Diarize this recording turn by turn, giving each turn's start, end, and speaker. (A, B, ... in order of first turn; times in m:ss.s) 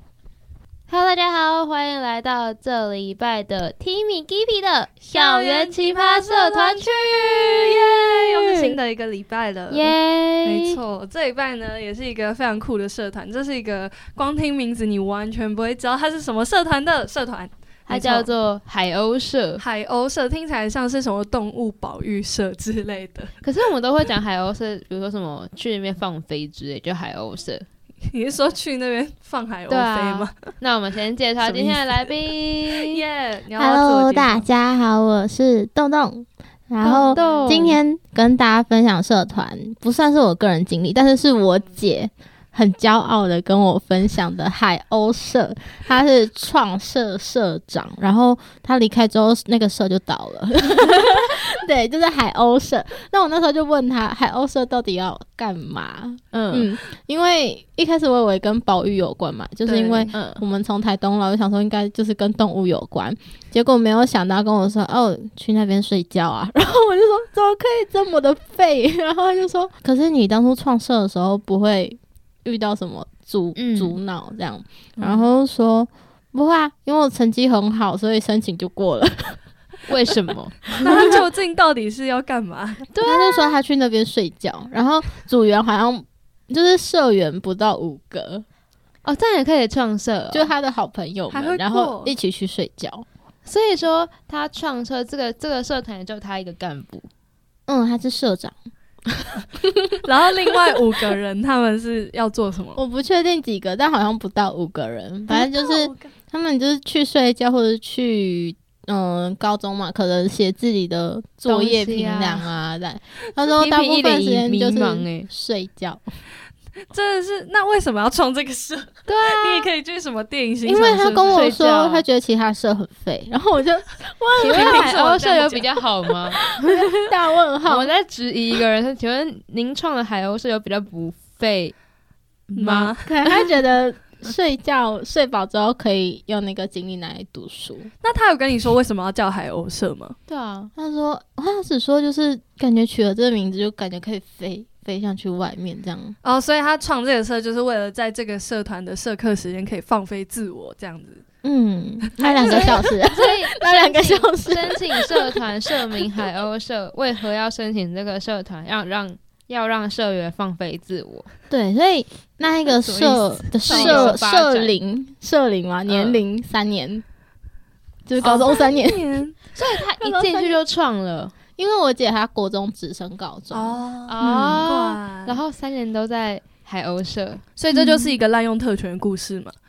0:00.9-0:08.7 A
0:05.0-0:18.3 B
0:09.7-0:10.8 A
0:17.9-0:19.6 A
0:19.6-0:23.3 B
0:23.4-0:27.6 A
0:28.1-0:30.5 B
0:29.7-0:33.0 A
0:31.4-0:34.5 B
0:33.5-1:19.4 C
0:36.8-0:37.8 A
0:36.9-0:37.7 B
0:56.3-0:56.7 A
0:59.6-1:00.1 B
1:00.1-1:00.4 A
1:13.5-1:14.0 A
1:19.9-1:21.1 A
1:20.7-1:21.2 C
1:20.8-1:22.9 B
1:22.9-1:23.6 A
1:23.0-1:28.4 C
1:29.0-1:30.5 A
1:30.3-1:33.0 C
1:31.3-1:32.1 B
1:33.4-1:37.1 A
1:37.7-1:38.6 C
1:39.1-1:39.9 C
1:40.0-1:42.8 B
1:42.8-1:56.0 C
1:45.3-1:46.1 B
1:51.4-1:52.5 A
1:53.6-1:55.3 A
1:56.9-2:01.5 B
1:59.1-1:59.7 A
2:00.6-2:05.0 C
2:01.3-2:02.0 A
2:04.4-2:07.0 A
2:04.4-2:05.7 B
2:06.3-2:07.9 C
2:07.6-2:11.7 A
2:12.5-2:12.9 A
2:12.6-2:13.5 B
2:13.0-2:17.9 C
2:18.0-2:20.2 B
2:20.3-2:20.7 A
2:20.8-2:26.2 C
2:26.2-2:31.2 B
2:31.4-2:35.1 C
2:32.2-2:32.9 B
2:32.3-2:41.3 A
2:41.5-2:47.0 C
2:42.6-2:44.2 B
2:43.7-2:44.8 A
2:48.0-2:50.6 C
2:48.2-2:48.5 A
2:48.2-2:49.4 B
2:49.5-2:51.3 A
2:51.6-2:54.7 C
2:53.5-2:55.4 B
2:54.1-2:57.4 A
2:57.6-2:59.5 B
2:57.7-2:58.2 C